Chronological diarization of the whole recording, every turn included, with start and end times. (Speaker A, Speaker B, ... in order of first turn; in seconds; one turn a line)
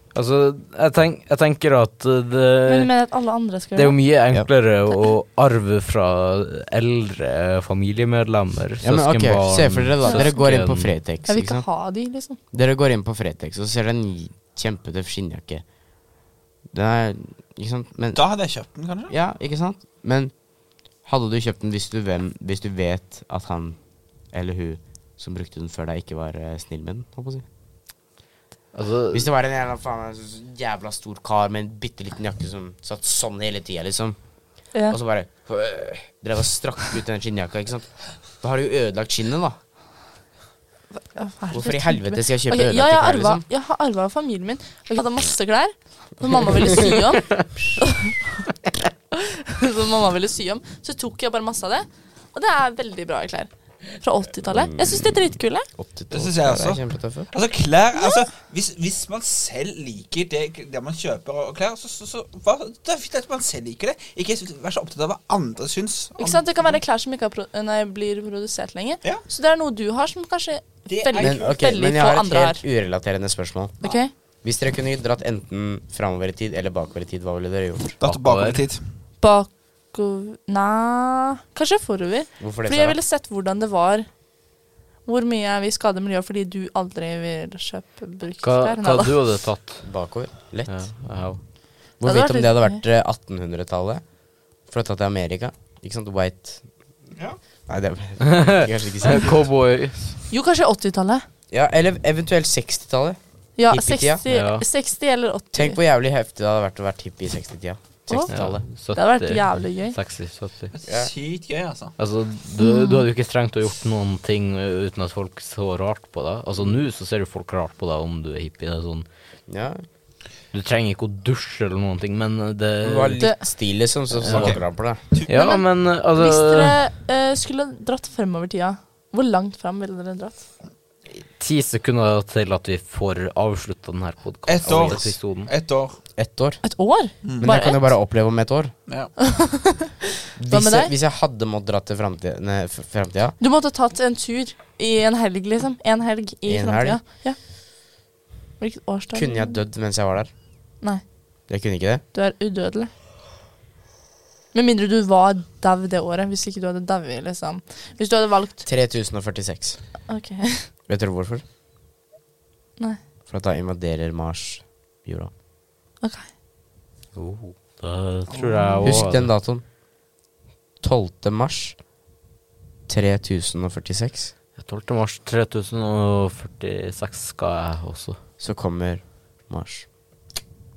Speaker A: 0.1-2.9
Speaker B: 2.7-4.0
Speaker A: 3.7-10.9
Speaker C: 8.8-11.7
Speaker B: 10.0-10.3
Speaker B: 11.3-12.4
Speaker C: 12.5-15.6
Speaker C: 16.7-18.2
Speaker D: 18.1-19.1
Speaker C: 19.1-20.3
Speaker C: 21.0-23.8
Speaker C: 24.3-27.4
Speaker A: 28.7-29.2
Speaker C: 29.1-34.2
Speaker C: 34.9-37.9
Speaker C: 38.4-39.6
Speaker B: 40.9-48.4
Speaker C: 41.5-43.4
Speaker B: 49.1-55.7
Speaker C: 54.5-55.1
Speaker C: 55.8-57.3
Speaker D: 56.1-66.8
Speaker B: 66.2-72.6
Speaker D: 70.9-71.5
Speaker C: 71.2-73.8
Speaker B: 73.8-74.1
Speaker C: 74.4-78.0
Speaker D: 78.0-78.8
Speaker A: 78.0-78.7
Speaker B: 79.2-84.1
Speaker C: 82.4-83.0
Speaker B: 85.0-89.2
Speaker A: 88.4-89.9
Speaker C: 89.8-90.8
Speaker A: 90.7-91.4
Speaker C: 92.0-94.0
Speaker B: 92.0-92.8
Speaker C: 94.7-96.6
Speaker C: 97.7-99.4
Speaker A: 98.2-100.2
Speaker B: 100.3-101.2
Speaker C: 101.5-103.2
Speaker B: 103.6-105.8
Speaker C: 103.7-104.2
Speaker A: 104.3-104.6
Speaker C: 105.5-108.6
Speaker B: 108.1-108.3
Speaker A: 108.3-110.7
Speaker B: 108.9-110.0
Speaker D: 110.7-111.9
Speaker A: 112.0-119.0
Speaker B: 112.6-113.0
Speaker C: 119.5-119.8
Speaker A: 120.5-123.2
Speaker C: 122.8-125.0
Speaker A: 124.2-124.6
Speaker D: 124.3-124.6
Speaker A: 125.3-126.8
Speaker B: 125.3-125.6
Speaker B: 126.2-130.4
Speaker A: 131.4-135.5
Speaker D: 134.4-136.0
Speaker C: 134.6-135.1
Speaker C: 136.2-136.6
Speaker B: 136.6-137.8
Speaker D: 137.2-137.5
Speaker C: 137.4-138.7
Speaker B: 139.2-140.0
Speaker C: 140.4-143.4
Speaker B: 140.5-140.9
Speaker B: 143.4-147.4
Speaker C: 146.5-147.0
Speaker B: 148.6-149.6
Speaker C: 149.1-150.3
Speaker C: 151.5-152.0
Speaker B: 152.1-152.9
Speaker B: 154.5-158.6
Speaker C: 158.6-159.8
Speaker B: 160.1-160.7
Speaker C: 160.9-161.4
Speaker C: 163.3-165.3
Speaker B: 166.0-166.3
Speaker A: 167.1-169.3
Speaker D: 168.3-169.1
Speaker C: 168.8-169.6
Speaker C: 170.8-171.8
Speaker C: 172.9-174.3
Speaker A: 174.6-178.2
Speaker C: 178.4-179.9